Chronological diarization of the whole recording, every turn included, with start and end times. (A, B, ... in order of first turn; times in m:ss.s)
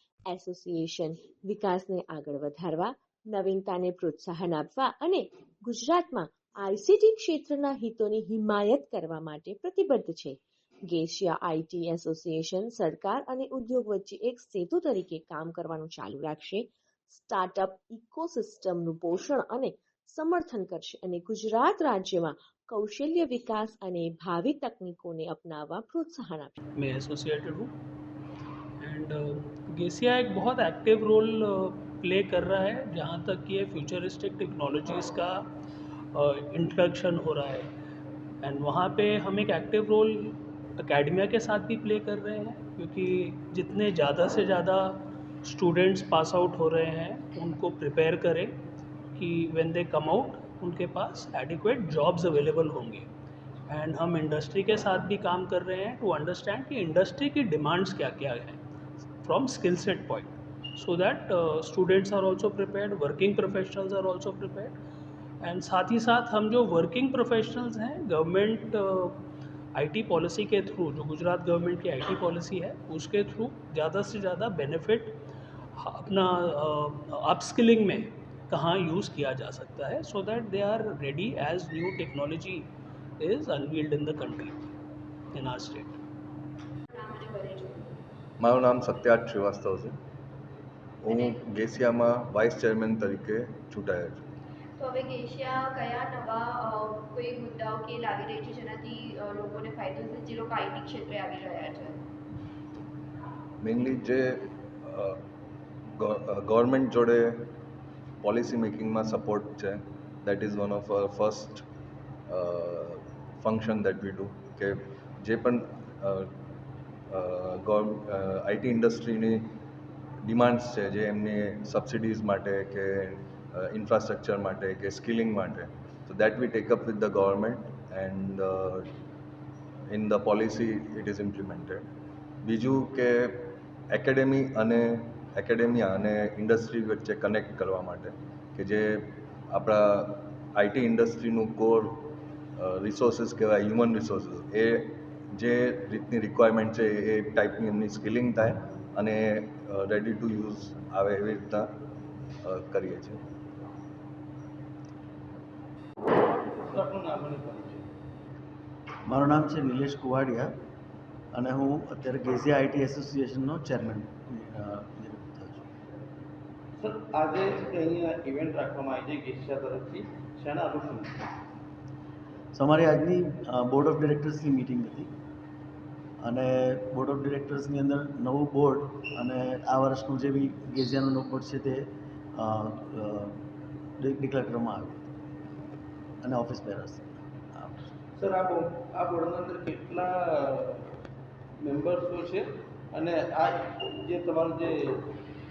0:00.3-0:10.4 A
0:10.9-0:26.6 A
0:26.8-0:27.7 B
0:28.8-0:35.4 B
0:36.1-0:37.7 B
0:38.4-0:48.6 B
0:49.2-0:53.1 B
0:53.7-0:58.6 B
0:59.2-1:04.8 B
1:05.4-1:09.2 B
1:09.8-1:15.2 B
1:15.8-1:22.7 B
1:23.2-1:24.7 B
1:25.3-1:26.0 B
1:26.9-1:27.9 C
1:28.4-1:30.0 D
1:31.0-1:34.2 D
1:34.8-1:42.0 C
1:43.6-1:45.2 D
1:46.0-1:47.5 D
1:48.2-1:51.6 D
1:52.3-1:56.3 D
1:57.1-1:59.5 D
2:00.2-2:08.8 D
2:09.9-2:11.8 D
2:12.4-2:31.7 D
2:32.4-2:33.2 D
2:36.3-2:37.8 E
2:39.1-2:40.6 F
2:41.3-2:45.7 F
2:46.8-2:51.1 E
2:52.5-2:55.1 F
2:56.2-3:03.4 F
3:04.0-3:05.1 F
3:06.2-3:07.9 F
3:08.2-3:10.8 E
3:11.6-3:15.1 E